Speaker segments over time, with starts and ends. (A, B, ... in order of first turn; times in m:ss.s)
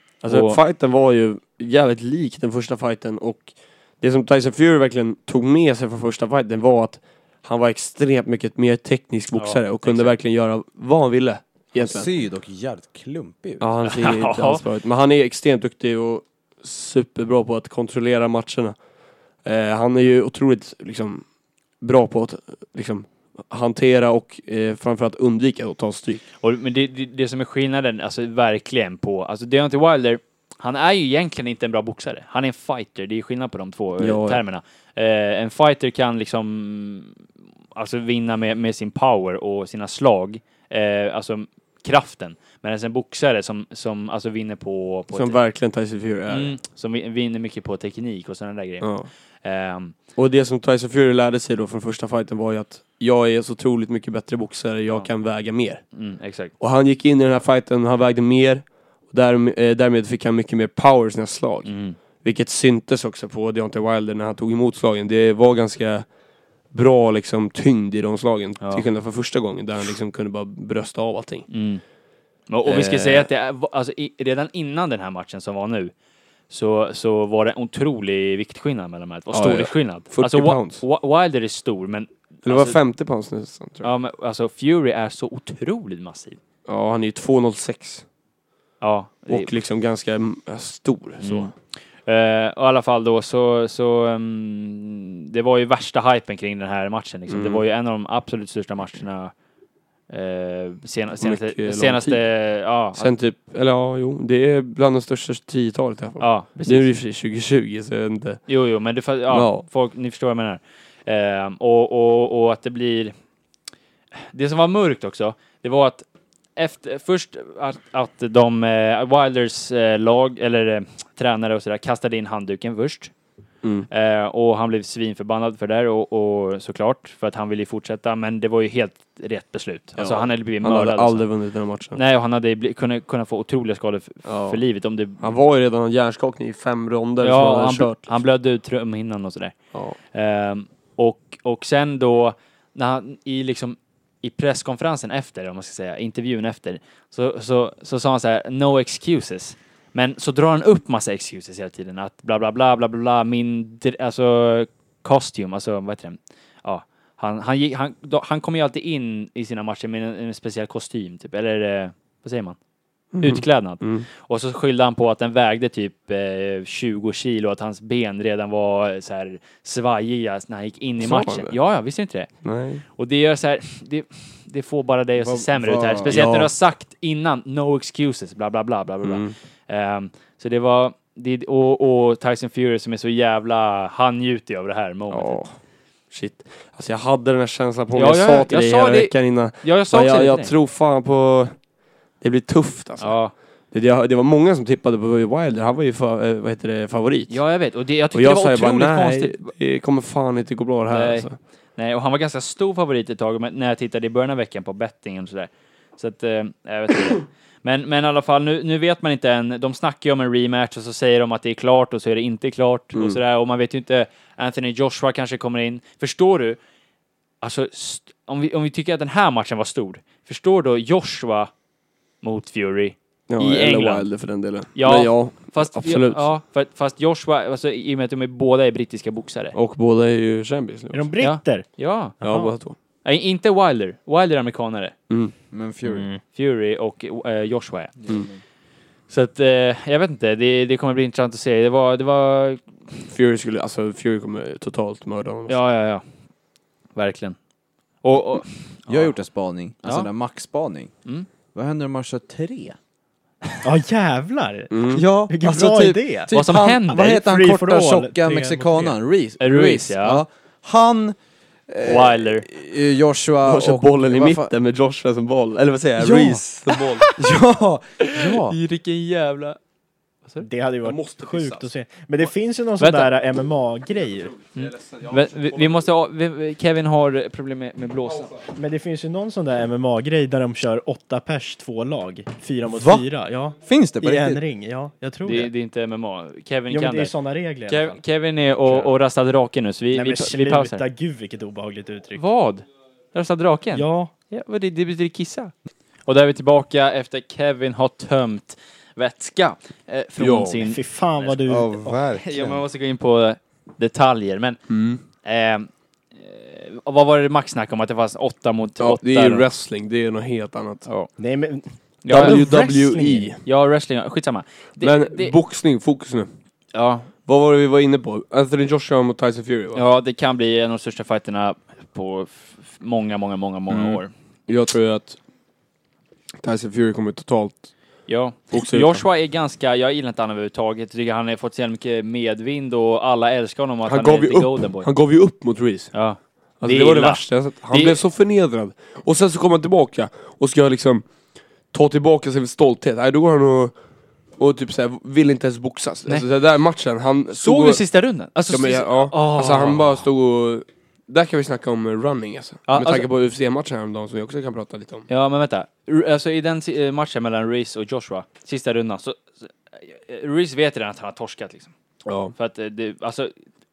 0:00.2-0:00.6 A
0:00.2-0:12.1 B
0:09.3-0:10.2 A
0:11.7-0:13.7 C
0:13.6-0:18.8 B
0:13.8-0:14.6 A
0:19.4-0:21.2 B
0:21.8-0:26.2 B
0:26.4-0:37.2 A
0:34.0-0:34.4 B
0:37.7-0:45.4 A
0:45.1-0:46.5 B
0:46.3-0:49.9 A
0:48.8-0:49.1 B
0:50.1-0:55.8 B
0:55.9-0:56.5 A
0:56.6-1:06.1 B
1:01.6-1:02.0 A
1:06.7-1:11.5 B
1:08.6-1:08.8 A
1:11.5-1:11.8 A
1:12.5-1:15.9 A
1:12.6-1:13.3 B
1:16.5-1:22.8 A
1:19.3-1:20.8 B
1:22.4-1:23.9 B
1:23.8-1:26.4 A
1:26.6-1:28.0 B
1:28.8-1:29.5 A
1:29.3-1:31.5 B
1:31.2-1:31.5 A
1:32.0-1:39.3 A
1:37.3-1:37.6 B
1:40.1-1:43.1 A
1:41.2-1:42.2 B
1:42.9-1:48.5 B
1:46.2-1:46.9 A
1:48.5-1:53.1 A
1:49.3-1:49.6 B
1:54.3-1:56.0 A
1:56.6-2:03.1 A
2:03.6-2:03.9 B
2:03.9-2:11.3 A
2:10.0-2:12.0 B
2:11.9-2:15.2 A
2:14.2-2:14.6 B
2:15.2-2:18.1 B
2:17.2-2:19.5 A
2:19.7-2:20.0 B
2:20.1-2:42.6 A
2:43.1-2:44.0 B
2:43.2-2:52.3 A
2:51.0-2:51.6 B
2:52.4-2:52.8 B
2:52.9-3:05.4 A
2:55.2-2:56.2 C
2:56.1-2:56.5 B
2:59.0-2:59.3 B
3:05.1-3:05.5 B
3:06.1-3:11.6 B
3:07.9-3:10.5 A
3:12.2-3:13.2 B
3:13.0-3:13.3 A
3:13.7-3:17.4 B
3:17.3-3:19.5 A
3:18.1-3:21.4 B
3:20.9-3:36.6 A
3:32.9-3:33.2 B
3:37.4-3:41.5 A
3:42.2-3:44.2 A
3:43.3-3:46.3 B
3:44.7-3:49.6 A
3:49.5-3:51.1 B
3:50.9-3:51.7 D
3:51.2-3:52.1 A
3:52.2-3:52.5 D
3:52.2-3:52.8 B
3:53.0-3:54.9 A
3:55.5-3:56.1 C
3:55.9-3:56.2 D
3:56.2-3:58.0 A
3:58.0-3:58.4 C
3:59.1-4:02.7 A
4:03.1-4:05.6 B
4:05.5-4:06.0 A
4:07.0-4:07.4 A
4:08.0-4:09.1 A
4:08.9-4:10.9 C
4:09.8-4:10.1 A
4:11.5-4:12.8 C
4:13.6-4:16.3 D
4:14.7-4:15.0 B
4:14.9-4:24.5 C
4:16.3-4:17.1 A
4:16.9-4:19.0 D
4:19.4-4:20.2 A
4:21.8-4:22.4 A
4:23.4-4:27.0 B
4:26.0-4:26.4 C
4:27.0-4:27.3 A
4:27.1-4:28.6 C
4:28.0-4:29.6 A
4:30.4-4:34.4 D
4:30.8-4:31.6 B
4:32.8-4:33.1 A
4:34.5-4:38.4 A
4:38.5-4:45.5 D
4:42.7-4:43.1 C
4:43.6-4:44.4 C
4:45.2-4:47.1 A
4:46.7-4:48.0 D
4:47.7-4:50.8 A
4:48.6-4:48.9 D
4:49.9-4:52.2 D
4:52.1-4:55.5 A
4:53.7-4:54.1 D
4:56.0-5:01.4 A
5:00.2-5:00.6 B
5:00.6-5:02.0 D
5:01.4-5:02.6 C
5:02.1-5:04.6 A
5:04.7-5:05.0 B
5:05.2-5:09.4 A
5:08.8-5:10.8 B
5:11.2-5:13.3 D
5:12.0-5:12.8 A
5:12.1-5:13.4 B
5:13.4-5:15.3 A
5:14.8-5:16.3 B
5:16.7-5:17.1 A
5:17.2-5:19.8 B
5:19.7-5:24.1 A
5:23.7-5:25.2 B
5:26.4-5:27.7 B
5:28.1-5:34.9 A
5:28.5-5:29.0 B
5:33.8-5:35.9 B
5:35.9-5:38.0 A
5:36.6-5:41.0 B
5:41.7-5:43.7 B
5:44.4-5:47.8 B
5:47.3-5:50.0 A
5:48.5-5:55.1 B
5:52.7-5:53.0 A
5:55.1-6:01.7 A
6:02.0-6:02.3 B
6:02.4-6:03.3 A